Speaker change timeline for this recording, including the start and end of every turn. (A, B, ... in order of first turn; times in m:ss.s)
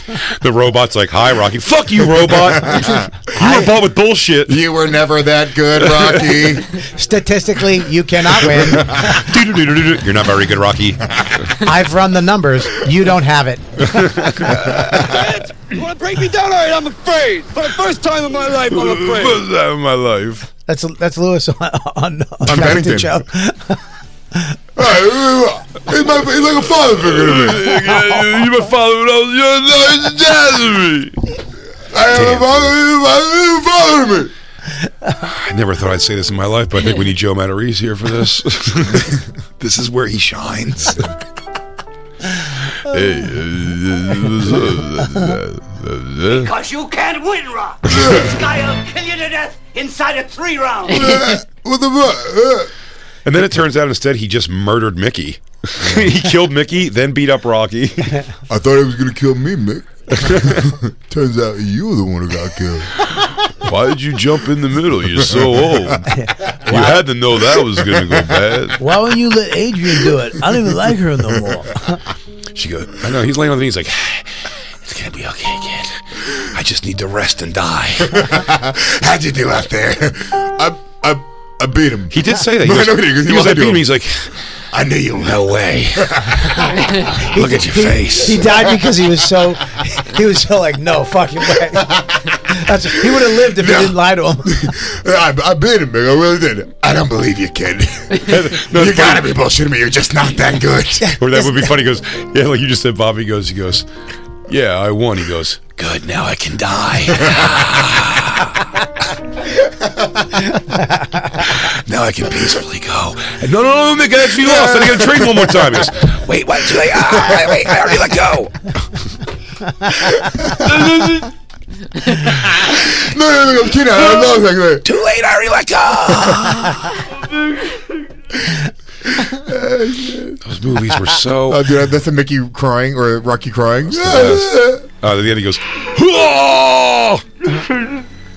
0:00.2-0:04.6 A
0:02.6-0:03.0 B
0:03.3-0:03.7 C
0:04.4-0:06.7 B
0:06.8-0:09.2 C
0:08.6-0:09.2 B
0:08.8-0:11.5 A
0:11.6-0:14.5 C
0:13.8-0:15.1 A
0:15.0-0:19.4 D
0:18.7-0:20.5 A
0:20.7-0:23.8 C
0:22.4-0:23.2 B
0:24.8-0:27.9 B
0:26.9-0:31.4 A
0:31.9-0:34.3 B
0:32.0-0:32.7 A
0:35.2-0:41.1 A
0:42.7-0:46.5 A
0:46.3-0:51.3 E
0:50.9-0:52.7 B
0:53.2-0:58.2 A
0:55.8-0:56.1 B
0:58.5-1:03.0 B
1:00.1-1:00.7 A
1:03.5-1:08.8 A
1:05.2-1:06.0 B
1:06.1-1:07.1 C
1:07.7-1:08.4 B
1:08.8-1:12.0 C
1:12.5-1:18.4 A
1:18.0-1:23.9 B
1:22.1-1:24.4 A
1:24.7-1:26.9 B
1:25.1-1:28.5 A
1:27.1-1:34.7 C
1:31.6-1:32.4 B
1:32.9-1:41.2 B
1:38.2-1:39.3 A
1:41.0-1:41.7 C
1:41.2-1:43.9 A
1:44.5-1:48.8 A
1:50.8-1:51.2 C
1:51.4-1:58.7 A
1:54.3-1:55.8 B
1:56.9-1:57.8 B
2:00.2-2:01.2 B
2:00.5-2:01.3 A
2:02.2-2:02.8 A
2:02.5-2:04.9 B
2:04.1-2:07.0 A
2:09.1-2:10.4 B
2:10.4-2:11.8 A
2:11.4-2:14.8 B
2:13.9-2:17.6 A